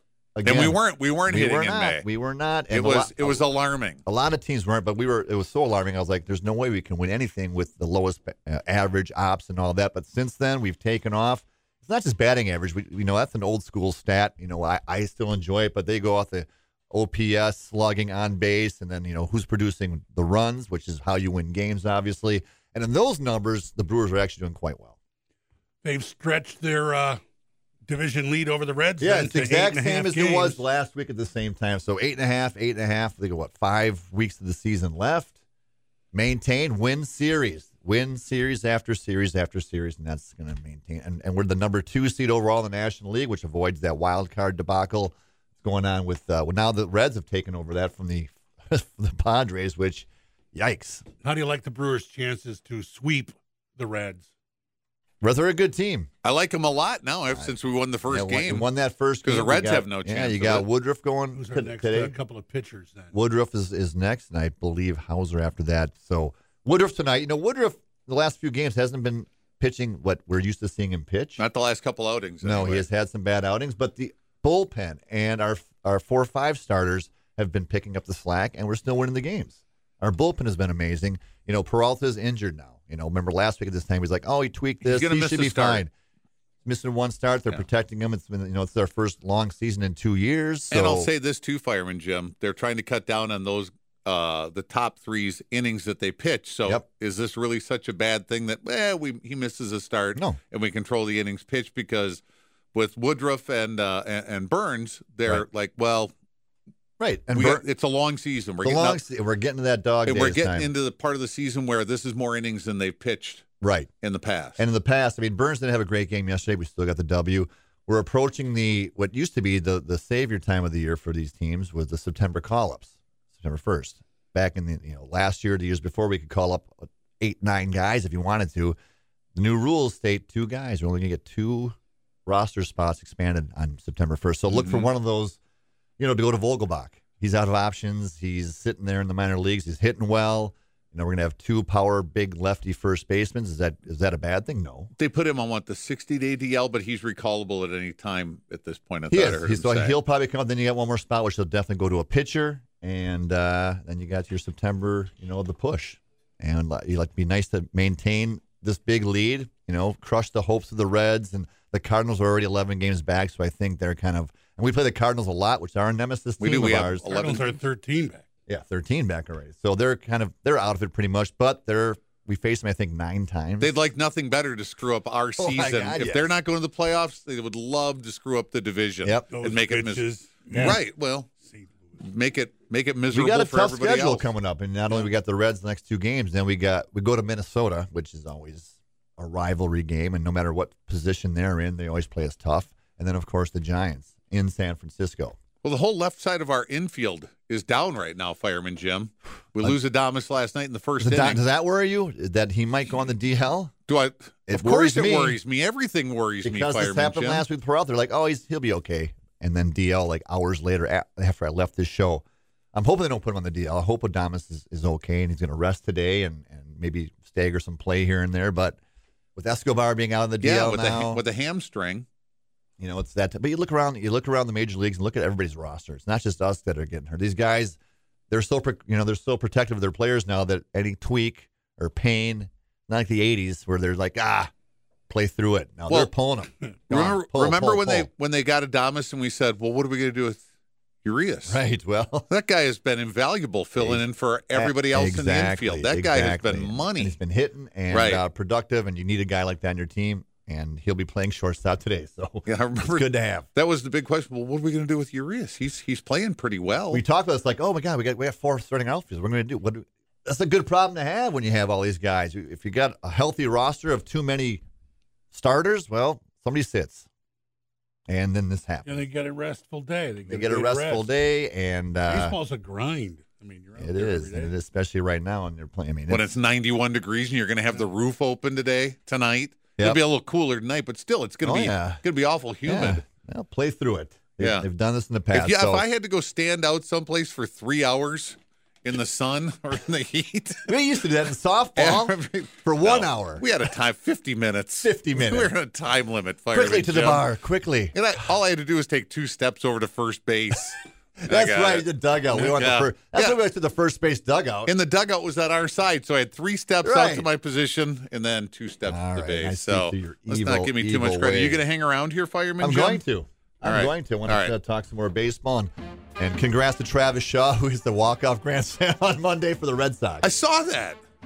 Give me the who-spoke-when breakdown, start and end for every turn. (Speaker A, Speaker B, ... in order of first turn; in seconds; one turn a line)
Speaker A: 0.3-3.4
Speaker B: 0.4-2.1
Speaker B: 2.7-4.0
Speaker A: 4.1-24.9
Speaker C: 25.8-27.2
Speaker C: 27.9-30.6
Speaker A: 29.0-35.4
Speaker A: 36.1-51.0
Speaker C: 51.2-54.3
Speaker A: 55.2-56.1
Speaker B: 56.2-58.7
Speaker A: 58.1-62.1
Speaker B: 59.2-60.6
Speaker C: 61.3-63.1
Speaker A: 63.1-71.4
Speaker B: 71.4-72.9
Speaker A: 72.4-85.9
Speaker B: 84.8-85.8
Speaker A: 86.6-91.1
Speaker B: 90.7-102.2
Speaker B: 102.7-106.1
Speaker A: 107.0-107.6
Speaker B: 107.3-109.0
Speaker A: 108.6-110.7
Speaker B: 110.0-113.4
Speaker A: 113.6-113.9
Speaker B: 114.0-114.6
Speaker A: 114.6-128.8
Speaker A: 129.4-135.4
Speaker B: 134.5-134.9
Speaker A: 136.0-144.9
Speaker B: 145.0-150.0
Speaker A: 149.1-167.1
Speaker B: 166.4-167.6
Speaker C: 167.0-168.2
Speaker A: 168.5-173.7
Speaker B: 173.6-181.3
Speaker A: 175.4-176.3
Speaker A: 179.0-179.3
Speaker C: 179.3-181.9
Speaker A: 180.5-180.8
Speaker B: 182.0-184.3
Speaker A: 183.1-195.4
Speaker B: 195.6-201.4
Speaker A: 201.0-203.7
Speaker B: 203.9-207.5
Speaker A: 204.5-205.4
Speaker A: 206.4-218.8
Speaker A: 219.4-221.2
Speaker B: 220.4-222.1
Speaker A: 222.8-227.8
Speaker A: 228.3-234.5
Speaker A: 235.1-238.1
Speaker B: 236.9-240.4
Speaker B: 241.0-241.6
Speaker A: 241.5-242.3
Speaker B: 242.3-247.2
Speaker A: 243.8-253.5
Speaker B: 247.9-248.2
Speaker B: 252.5-257.0
Speaker A: 256.9-264.6
Speaker A: 265.3-267.1
Speaker A: 268.1-269.1
Speaker C: 268.9-271.2
Speaker A: 270.2-272.4
Speaker C: 272.1-274.5
Speaker A: 273.8-276.3
Speaker B: 276.1-283.0
Speaker A: 281.4-282.0
Speaker A: 282.6-285.9
Speaker B: 284.4-284.6
Speaker B: 285.3-290.7
Speaker A: 290.6-293.5
Speaker B: 291.8-297.3
Speaker A: 294.8-295.5
Speaker A: 296.5-298.2
Speaker B: 297.9-303.4
Speaker A: 301.2-304.7
Speaker B: 304.7-313.0
Speaker A: 306.8-307.3
Speaker A: 308.9-311.6
Speaker A: 312.6-320.3
Speaker B: 313.6-314.5
Speaker B: 320.2-321.0